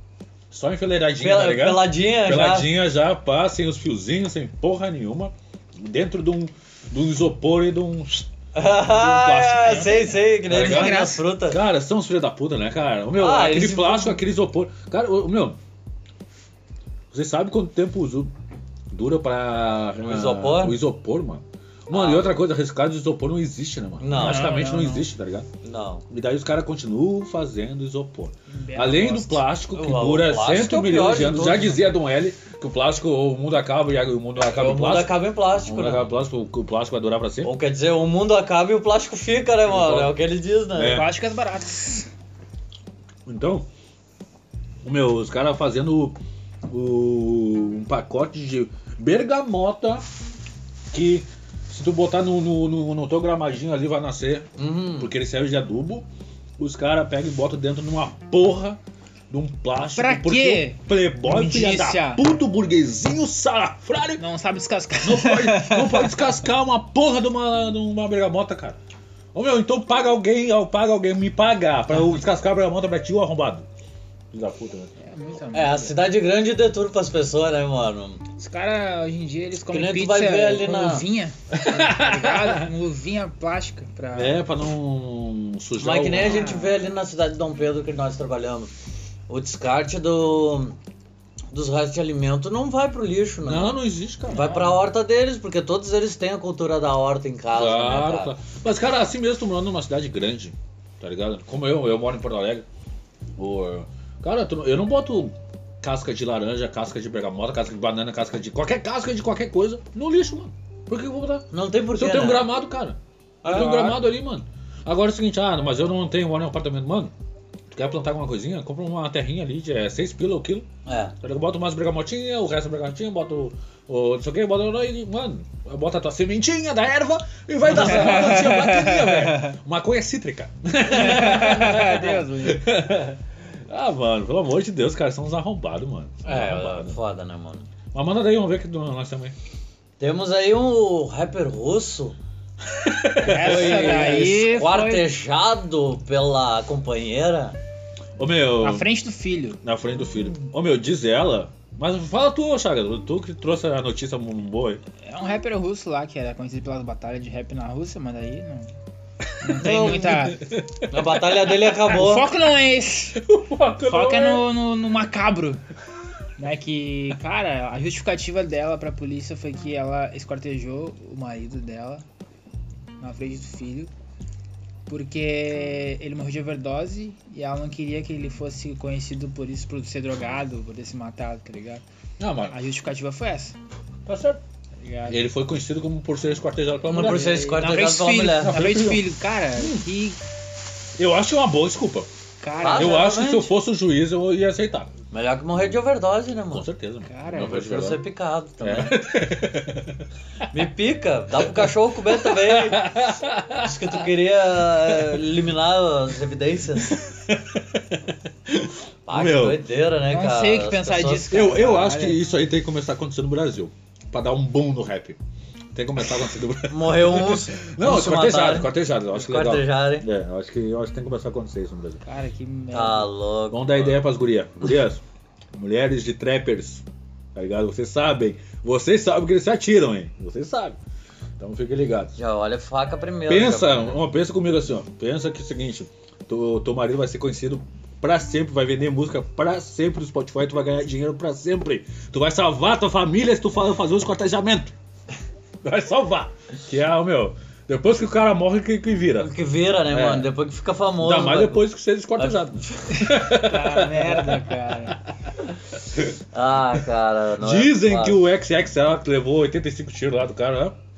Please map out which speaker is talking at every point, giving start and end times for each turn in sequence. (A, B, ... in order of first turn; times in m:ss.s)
0:00.5-0:15.6 A
0:01.2-0:02.7 B
0:08.5-0:11.6 B
0:10.5-0:11.2 C
0:13.2-0:14.2 B
0:17.1-0:18.3 A
0:18.9-0:25.5 A
0:20.0-0:20.8 B
0:21.9-0:22.4 B
0:24.0-0:24.6 B
0:24.1-0:25.1 C
0:25.6-0:26.0 B
0:26.1-0:37.5 A
0:28.5-0:29.5 C
0:29.7-0:31.9 B
0:34.4-0:36.2 B
0:37.4-0:41.1 B
0:39.7-0:40.2 A
0:40.7-0:41.1 A
0:40.9-0:42.1 C
0:43.3-0:43.7 A
0:44.8-0:50.0 A
0:50.9-0:56.1 A
0:54.6-0:55.1 B
0:56.6-1:04.2 A
0:59.9-1:02.2 C
1:04.2-1:06.3 C
1:05.0-1:08.8 A
1:09.3-1:13.7 A
1:14.3-1:14.9 A
1:15.0-1:16.1 C
1:15.5-1:18.2 B
1:18.4-1:24.4 C
1:19.7-1:21.1 B
1:21.5-1:22.7 A
1:24.1-1:26.6 A
1:25.8-1:28.7 B
1:26.2-1:26.8 C
1:29.3-1:30.8 B
1:31.5-1:38.3 B
1:33.4-1:34.7 A
1:34.4-1:34.7 C
1:37.5-1:42.7 A
1:43.4-1:57.1 A
1:51.5-1:52.5 B
1:53.4-1:54.0 B
1:57.7-2:00.7 A
2:00.9-2:01.2 B
2:01.2-2:17.0 A
2:07.7-2:08.3 B
2:07.7-2:09.5 C
2:10.9-2:12.7 C
2:16.2-2:17.7 B
2:17.9-2:19.4 A
2:20.0-2:22.2 B
2:22.7-2:24.1 A
2:23.2-2:25.1 C
2:23.4-2:27.6 B
2:28.2-2:28.9 A
2:28.6-2:29.6 C
2:29.6-2:34.8 A
2:35.1-2:38.7 C
2:39.4-2:40.4 C
2:39.6-2:42.3 B
2:40.4-2:41.5 A
2:41.7-2:43.2 C
2:43.2-2:44.5 A
2:43.9-2:45.6 C
2:46.4-2:52.0 C
2:53.0-2:53.9 C
2:54.9-3:01.8 C
3:02.2-3:02.6 A
3:02.5-3:03.6 C
3:04.1-3:04.4 A
3:04.8-3:05.2 C
3:05.1-3:07.6 A
3:06.9-3:08.7 B
3:06.9-3:10.2 C
3:08.3-3:09.9 A
3:11.0-3:12.1 A
3:12.4-3:13.3 C
3:12.6-3:13.5 B
3:12.7-3:14.9 A
3:15.1-3:16.7 B
3:16.5-3:18.0 A
3:17.1-3:17.6 C
3:17.3-3:19.0 B
3:18.6-3:20.1 A
3:20.5-3:23.0 B
3:21.4-3:24.0 A
3:23.6-3:27.0 B
3:24.8-3:25.2 A
3:26.8-3:29.6 A
3:29.1-3:31.4 B
3:30.1-3:32.2 C
3:31.3-3:35.2 A
3:35.7-3:42.0 A
3:36.7-3:40.1 B
3:42.0-3:43.1 C
3:42.7-3:43.9 B
3:43.5-3:45.0 A
3:45.5-3:46.8 A
3:47.4-3:50.8 A
3:51.4-3:52.2 A
3:52.2-3:54.0 B
3:53.3-4:04.7 A
4:05.6-4:09.3 A
4:09.2-4:13.1 B
4:09.9-4:10.3 A
4:11.0-4:14.9 A
4:13.0-4:15.0 C
4:15.8-4:16.2 A
4:16.3-4:18.2 B
4:17.4-4:20.8 A